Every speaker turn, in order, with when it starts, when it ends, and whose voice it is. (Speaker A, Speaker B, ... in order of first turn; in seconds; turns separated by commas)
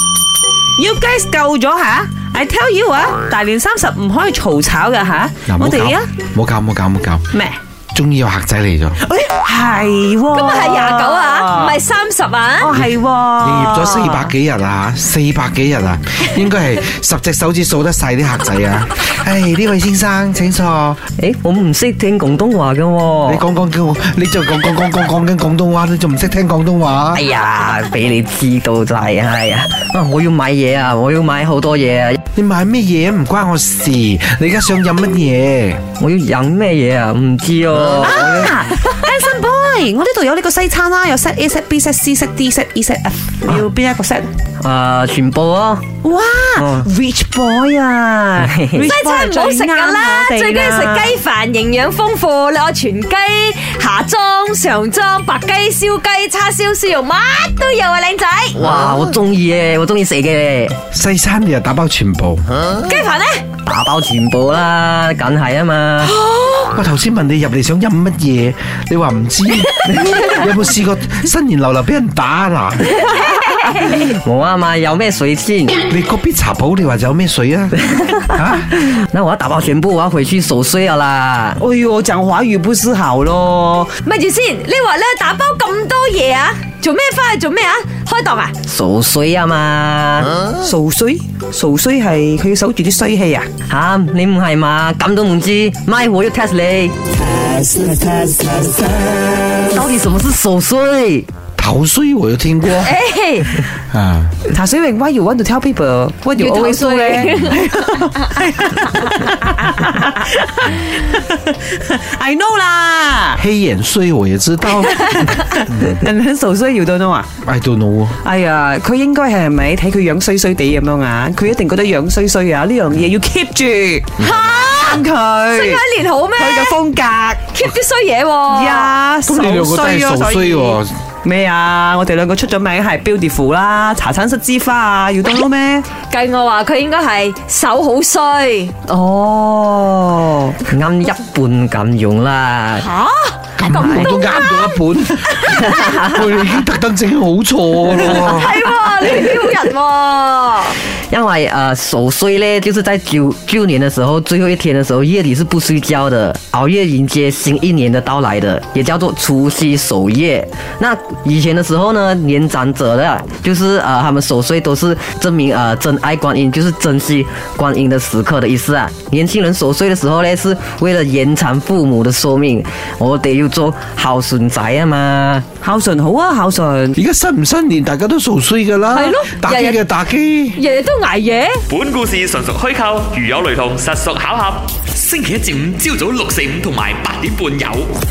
Speaker A: 0.8-6.1, Speaker B: 5.5-7.2, Speaker A: 7.3-7.6, Speaker B: 7.9-9.0, Speaker A: 9.0-11.8, Speaker C: 10.3-12.8, Speaker A: 12.6-14.3, Speaker B: 13.4-21.0, Speaker D: 21.2-23.4, Speaker B: 23.3-27.2, Speaker D: 27.1-32.2, Speaker B: 32.3-35.9, Speaker D: 36.0-38.5, Speaker A: 38.0-44.3, Speaker D: 44.6-45.9, Speaker A: 46.0-51.2, Speaker D: 46.6-46.9, Speaker D: 48.5-48.9, Speaker C: 48.9-58.7, Speaker D: 58.6-60.8, Speaker B: 60.9-62.5, Speaker C: 62.7-63.5, Speaker D: 63.6-66.2, Speaker C: 66.0-66.8, Speaker B: 66.7-73.0, Speaker C: 73.0-74.0, Speaker D: 73.8-75.8, Speaker B: 75.9-78.8, Speaker D: 77.9-81.6, Speaker A: 81.6-83.9, Speaker C: 84.0-88.5, Speaker D: 88.7-90.4, Speaker A: 90.5-93.5, Speaker D: 93.7-97.0, Speaker A: 97.2-99.7, Speaker D: 99.7-101.3, Speaker B: 101.6-103.0, Speaker C: 102.8-103.6, Speaker B: 103.9-104.3, Speaker A: 104.5-113.4, Speaker C: 106.4-108.1, Speaker B: 113.4-115.3, Speaker A: 115.0-117.3, Speaker B: 117.4-118.2, Speaker A: 118.2-125.8, Speaker C: 124.2-126.8, Speaker A: 126.4-127.4, Speaker C: 127.5-129.0, Speaker A: 128.5-135.9, Speaker B: 129.3-130.9, Speaker C: 135.9-138.8, Speaker A: 138.9-140.5, Speaker D: 140.6-142.9, Speaker C: 142.8-145.6, Speaker B: 143.6-148.5, Speaker D: 145.5-146.2, Speaker D: 148.1-148.3, Speaker C: 148.2-150.8, Speaker D: 150.9-175.5, Speaker A: 175.6-177.0, Speaker B: 177.0-180.6, Speaker C: 178.9-179.8, Speaker C: 180.6-181.6, Speaker E: 181.7-187.9